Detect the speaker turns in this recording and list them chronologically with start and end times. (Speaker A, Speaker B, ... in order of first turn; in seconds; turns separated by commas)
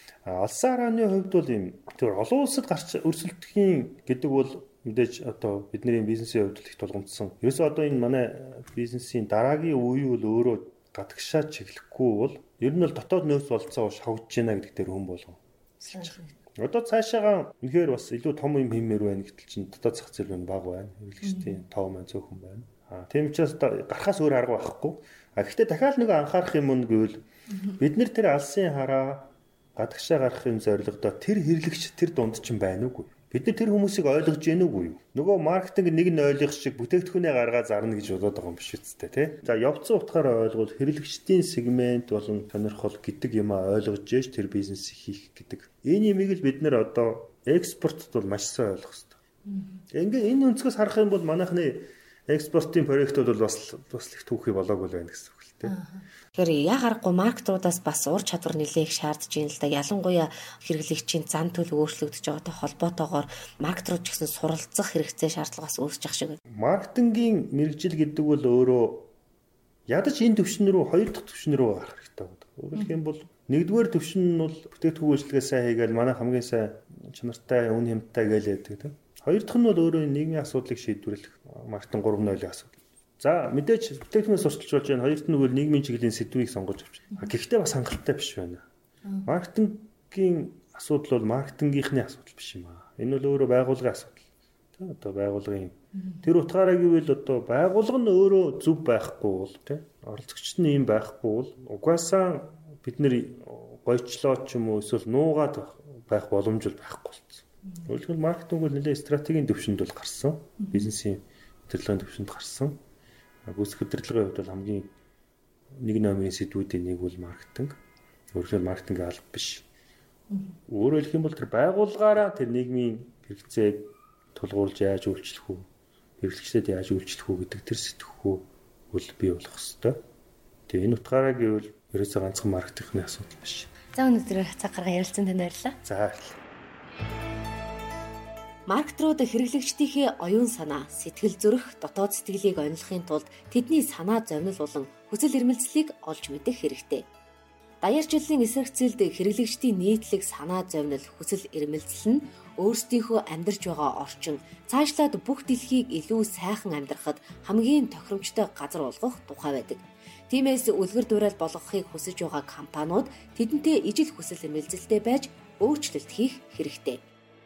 Speaker A: 0.2-49.2, Speaker B: 15.9-16.3, Speaker A: 49.9-55.7, Speaker B: 55.7-66.4, Speaker A: 66.5-69.1, Speaker A: 69.9-88.6, Speaker A: 89.2-94.2, Speaker A: 94.8-112.8, Speaker A: 113.5-114.9, Speaker A: 115.8-117.8, Speaker A: 118.3-119.7, Speaker A: 120.7-125.7, Speaker A: 126.2-130.0, Speaker A: 130.7-133.7, Speaker B: 133.9-135.8, Speaker A: 135.8-136.4, Speaker B: 138.7-147.0, Speaker B: 147.8-167.0